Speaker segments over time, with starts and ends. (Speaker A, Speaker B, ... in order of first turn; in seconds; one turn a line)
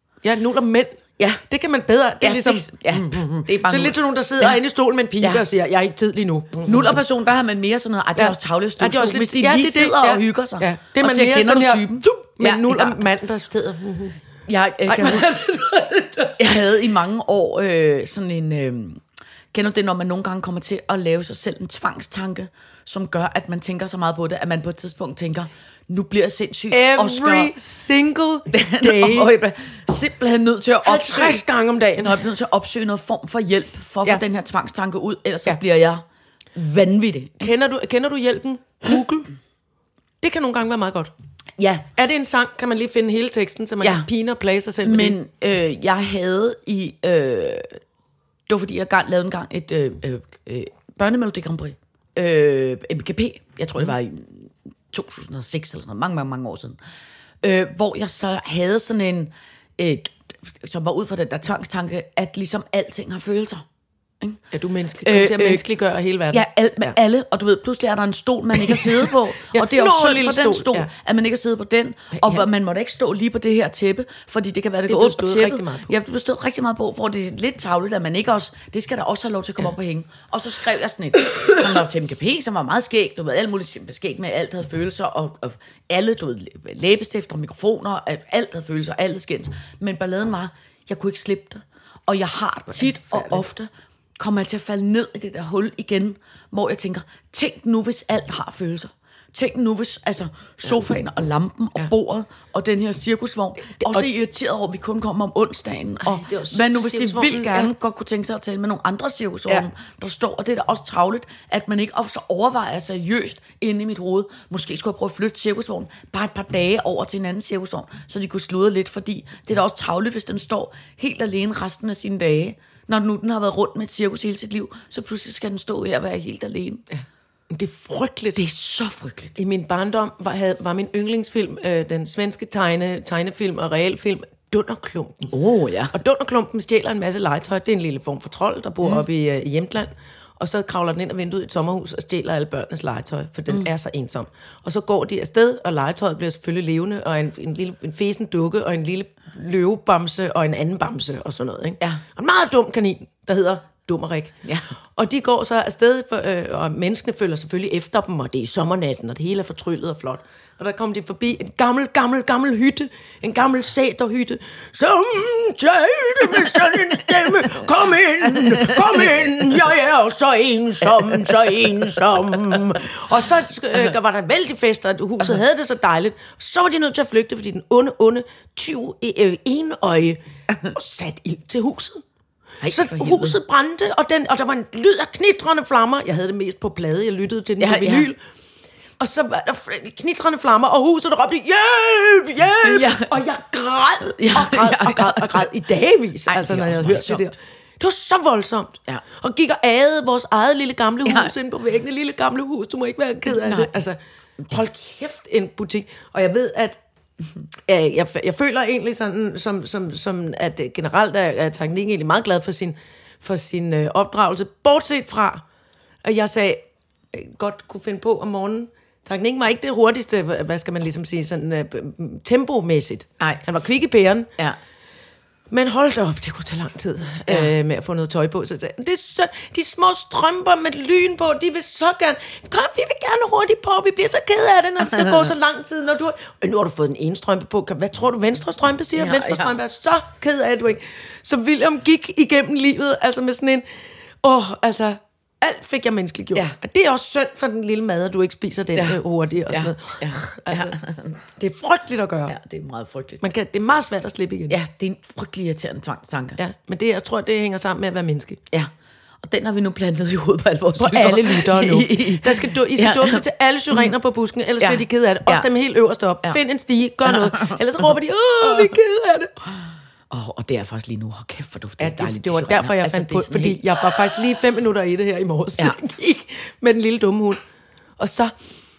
Speaker A: 0.2-7.0
Speaker B: 2.2-4.5
Speaker B: 5.2-5.5
Speaker B: 6.6-13.0
Speaker A: 8.2-14.2
Speaker B: 14.5-15.3
Speaker A: 14.9-16.5
Speaker B: 16.4-27.5
Speaker A: 26.7-29.3
Speaker B: 28.5-31.4
Speaker A: 30.8-32.2
Speaker B: 32.0-36.0
Speaker B: 36.5-37.5
Speaker A: 37.4-39.3
Speaker A: 40.2-41.1
Speaker B: 41.6-41.9
Speaker A: 42.0-45.2
Speaker B: 43.8-44.1
Speaker B: 44.8-47.8
Speaker B: 48.5-56.8
Speaker B: 57.4-63.6
Speaker A: 64.5-66.9
Speaker B: 65.0-65.6
Speaker B: 66.3-126.8
Speaker A: 68.8-70.9
Speaker A: 72.1-72.4
Speaker A: 74.9-75.9
Speaker A: 93.0-93.4
Speaker A: 103.8-104.1
Speaker A: 106.0-107.7
Speaker A: 126.9-128.4
Speaker B: 128.3-129.3
Speaker A: 129.4-135.3
Speaker B: 135.3-135.9
Speaker A: 135.9-154.3
Speaker A: 154.9-182.0
Speaker B: 168.6-168.9
Speaker B: 182.6-183.4
Speaker A: 182.7-188.2
Speaker B: 187.6-188.1
Speaker A: 189.0-204.0
Speaker B: 192.6-193.1
Speaker B: 194.2-195.4
Speaker B: 196.3-197.2
Speaker B: 201.0-201.3
Speaker B: 203.2-203.7
Speaker A: 204.5-206.8
Speaker A: 207.7-215.4
Speaker A: 216.0-224.3
Speaker A: 225.5-243.6
Speaker B: 227.3-227.5
Speaker B: 234.8-235.2
Speaker B: 238.9-239.6
Speaker A: 244.2-250.8
Speaker B: 248.7-251.2
Speaker A: 251.3-252.3
Speaker B: 252.3-253.2
Speaker A: 253.2-254.6
Speaker B: 254.5-256.4
Speaker A: 256.4-258.4
Speaker B: 259.2-263.9
Speaker A: 260.8-269.3
Speaker B: 264.6-265.5
Speaker B: 267.0-267.6
Speaker B: 268.4-268.7
Speaker B: 270.1-274.2
Speaker A: 271.8-277.4
Speaker A: 278.0-278.3